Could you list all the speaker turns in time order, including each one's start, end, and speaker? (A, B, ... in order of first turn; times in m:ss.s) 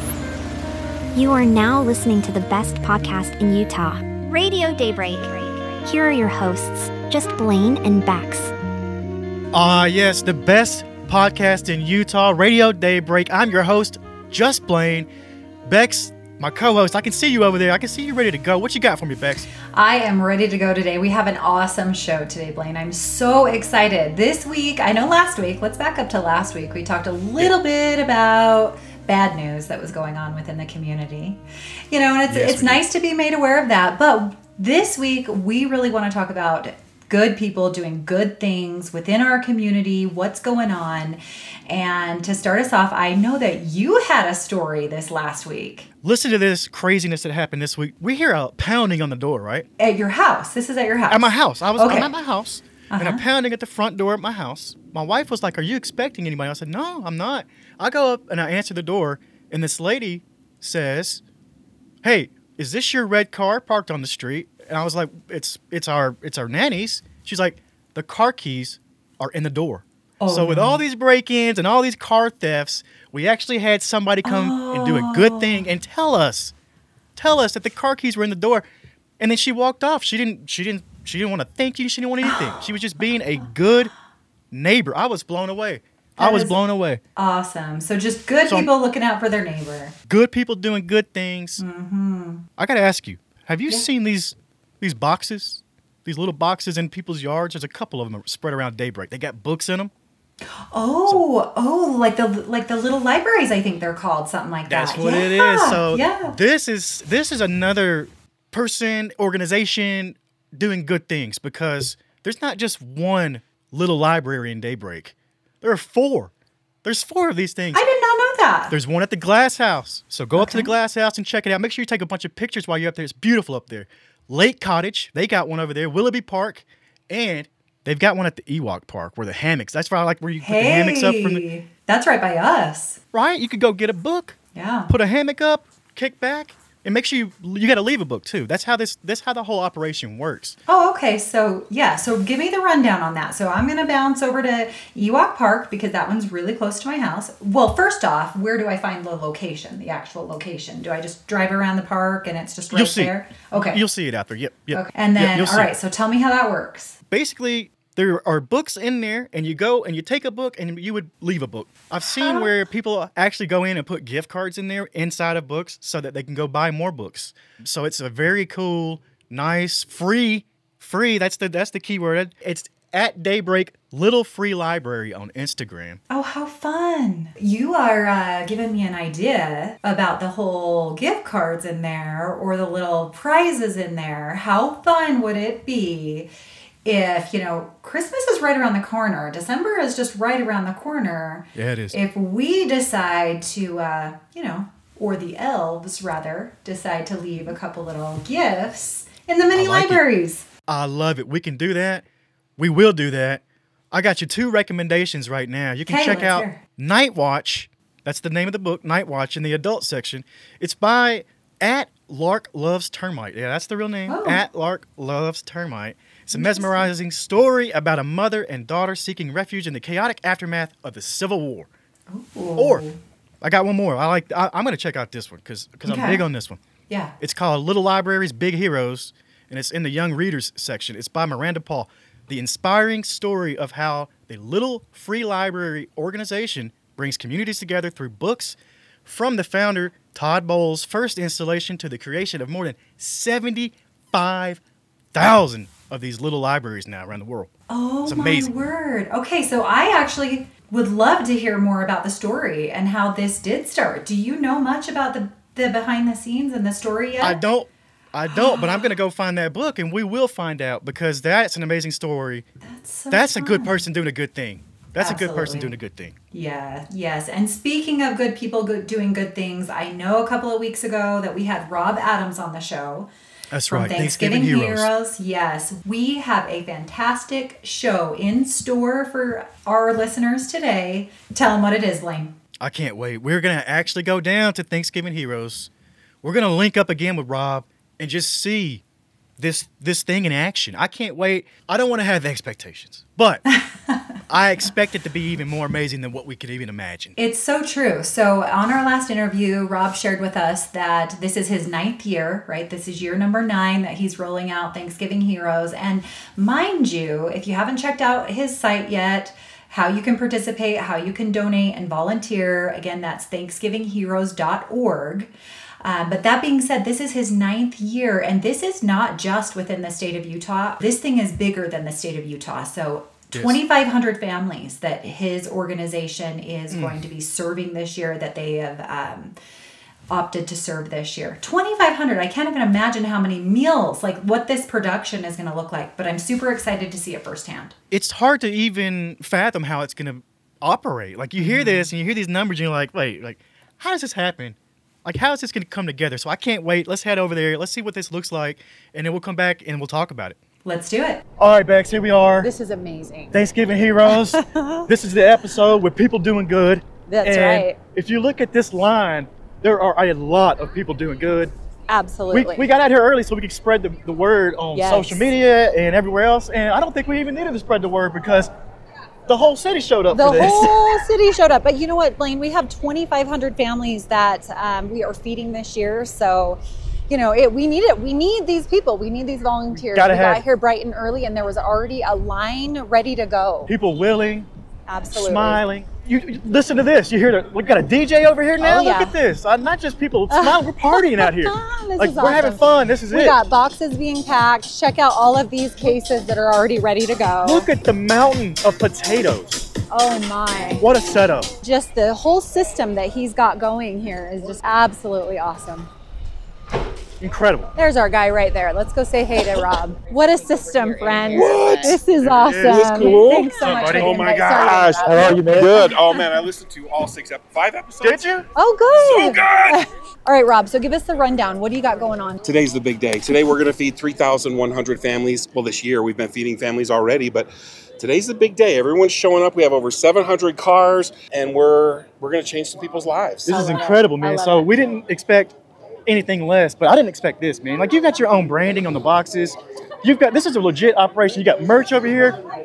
0:01.1-0:08.5 A
0:09.5-0:15.1 B
0:15.7-0:19.5 B
0:19.7-0:45.9 C
0:32.3-0:32.8 B
0:46.0-0:49.7 B
0:49.8-0:52.1 C
0:51.1-1:01.2 B
0:52.9-0:53.2 C
1:02.0-1:16.5 B
1:10.2-1:10.8 C
1:14.2-1:15.7 C
1:17.2-1:18.6 B
1:19.2-1:23.9 B
1:22.2-1:22.6 C
1:24.5-1:27.0 B
1:26.2-1:26.6 C
1:27.2-1:29.9 C
1:30.1-1:31.6 B
1:31.6-1:32.4 C
1:32.6-1:39.9 B
1:40.7-1:46.3 C
1:44.7-1:56.3 B
1:56.8-1:57.8 B
1:57.7-1:58.8 C
1:58.7-2:11.4 B
2:00.3-2:00.7 C
2:10.4-2:13.0 C
2:13.1-2:20.6 B
2:14.5-2:14.9 C
2:20.7-2:33.8 C
2:32.7-2:35.7 B
2:34.7-2:37.0 C
2:37.1-2:56.0 B
2:42.2-2:42.5 C
2:56.1-3:06.3 C
3:06.8-3:20.4 C
3:11.5-3:12.0 B
3:19.5-3:20.0 B
3:20.7-3:22.0 B
3:22.6-3:41.7 B
3:25.8-3:26.6 C
3:34.1-3:34.4 C
3:36.3-3:36.9 C
3:42.1-3:43.0 C
3:42.6-3:42.8 B
3:43.4-3:46.6 B
3:45.8-3:46.2 C
3:47.2-4:04.6 B
4:05.1-4:07.5 B
4:07.7-4:17.4 C
4:08.0-4:08.5 B
4:17.2-4:22.4 B
4:18.3-4:18.9 C
4:22.6-4:23.8 C
4:23.1-4:26.2 B
4:25.0-4:25.8 C
4:26.3-4:33.1 C
4:33.5-4:34.9 B
4:33.7-4:42.3 C
4:42.6-4:45.7 B
4:46.2-4:48.8 B
4:49.4-4:53.4 B
4:53.5-4:54.0 C
4:54.3-4:57.2 B
4:57.2-5:15.3 C
5:15.8-5:29.3 C
5:23.3-5:23.6 B
5:26.7-5:27.0 B
5:30.1-5:37.7 C
5:37.9-5:50.4 B
5:41.4-5:41.9 C
5:50.6-5:51.2 C
5:51.4-5:52.5 B
5:52.4-5:53.3 D
5:53.3-6:01.5 B
5:54.2-5:54.7 D
5:57.1-5:57.8 D
6:01.9-6:02.5 D
6:02.3-6:08.5 B
6:04.8-6:05.2 D
6:09.3-6:11.0 B
6:10.1-6:23.7 D
6:19.9-6:20.4 B
6:23.7-6:24.5 B
6:24.9-6:25.6 D
6:25.1-6:33.4 B
6:28.6-6:29.2 D
6:30.3-6:37.7 D
6:37.4-6:39.7 B
6:39.9-6:40.9 D
6:40.8-6:41.5 B
6:41.6-6:45.9 D
6:47.2-6:47.7 B
6:47.8-6:56.2 D
6:51.3-6:52.0 E
6:52.2-6:54.2 B
6:52.5-6:58.3 E
6:58.0-6:58.4 B
6:58.6-7:02.4 D
6:58.9-6:59.8 E
7:02.4-7:13.5 E
7:13.5-7:15.5 B
7:13.5-7:14.7 D
7:16.0-7:22.4 B